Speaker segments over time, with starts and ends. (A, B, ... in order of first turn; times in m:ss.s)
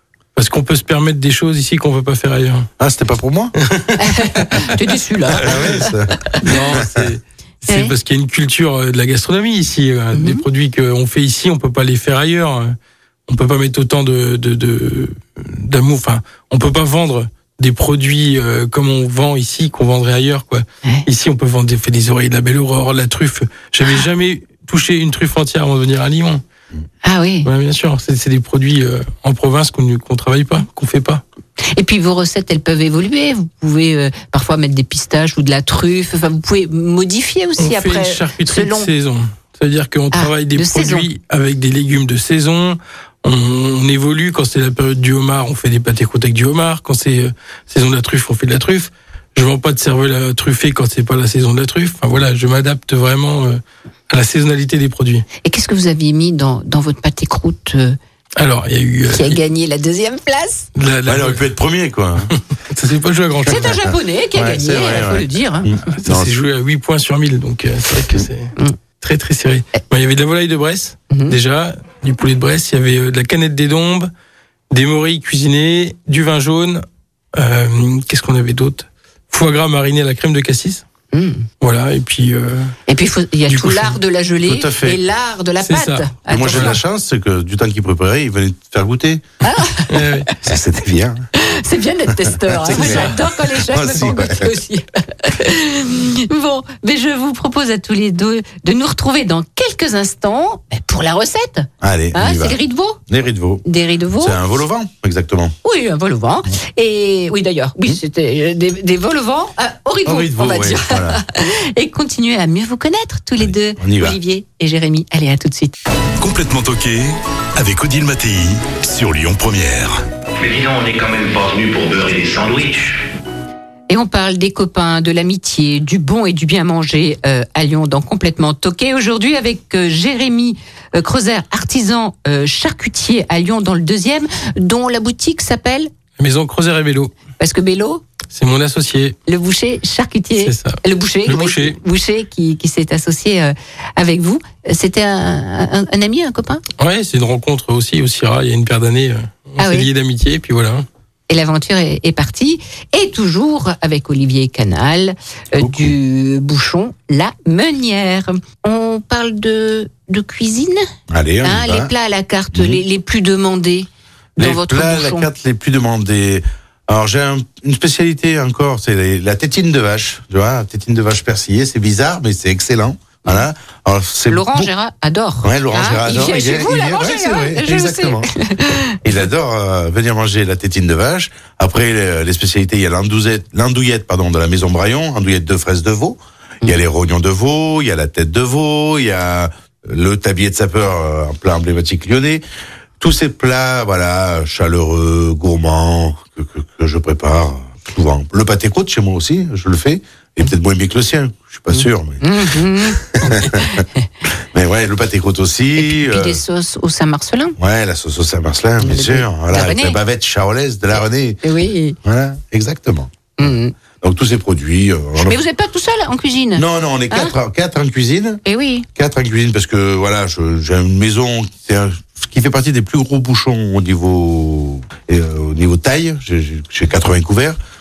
0:00.4-0:02.7 A
0:02.8-0:03.5 B
0:04.0-0:05.9 C
0:05.4-0:06.2 B
0:06.4-0:12.8 A
0:06.7-0:07.0 B
0:10.1-0:10.4 C
0:13.3-0:26.4 A
0:27.0-0:27.5 C
0:27.4-0:31.2 A
0:31.7-0:38.9 C
0:37.6-0:55.2 A
0:40.1-0:41.1 C
0:55.4-0:58.0 C
0:58.4-0:59.4 A
0:59.1-1:00.7 C
1:00.8-1:01.4 A
1:01.1-1:02.3 B
1:02.7-1:03.8 A
1:03.5-1:05.7 C
1:04.3-1:06.3 B
1:05.9-1:14.1 A
1:14.7-1:20.8 A
1:21.1-1:21.5 C
1:21.6-1:22.8 A
1:22.9-1:26.8 C
1:23.5-1:24.0 A
1:24.5-1:25.0 B
1:25.6-1:26.8 A
1:26.3-1:29.2 B
1:29.4-1:30.0 C
1:29.9-1:30.3 A
1:30.4-1:31.2 B
1:31.4-1:43.0 C
1:32.2-1:34.6 B
1:32.7-1:33.1 A
1:41.8-1:43.6 B
1:43.6-1:44.4 C
1:44.2-1:45.6 B
1:45.6-1:55.7 C
1:50.0-1:51.2 B
1:53.4-1:54.2 B
1:56.2-2:00.0 D
2:00.4-2:02.9 E
2:03.9-2:15.9 C
2:16.2-2:17.1 A
2:17.4-2:18.0 C
2:18.3-2:19.2 A
2:19.3-2:26.6 C
2:20.4-2:21.8 A
2:26.8-2:30.9 A
2:29.6-2:29.9 C
2:31.3-2:40.9 C
2:35.6-2:35.9 B
2:41.1-2:41.9 B
2:41.4-2:45.3 C
2:42.5-2:42.8 B
2:44.4-2:54.7 B
2:54.3-2:59.0 C
2:55.4-2:58.3 B
2:59.0-3:12.4 B
3:13.0-3:23.8 B
3:21.7-3:24.1 C
3:24.5-3:26.4 B
3:25.8-3:27.6 C
3:27.6-3:31.5 B
3:28.8-3:30.0 C
3:31.4-3:32.0 C
3:32.0-3:35.4 B
3:33.4-3:33.7 C
3:35.2-3:37.3 C
3:36.6-3:38.4 B
3:38.4-3:38.9 C
3:39.0-3:47.6 B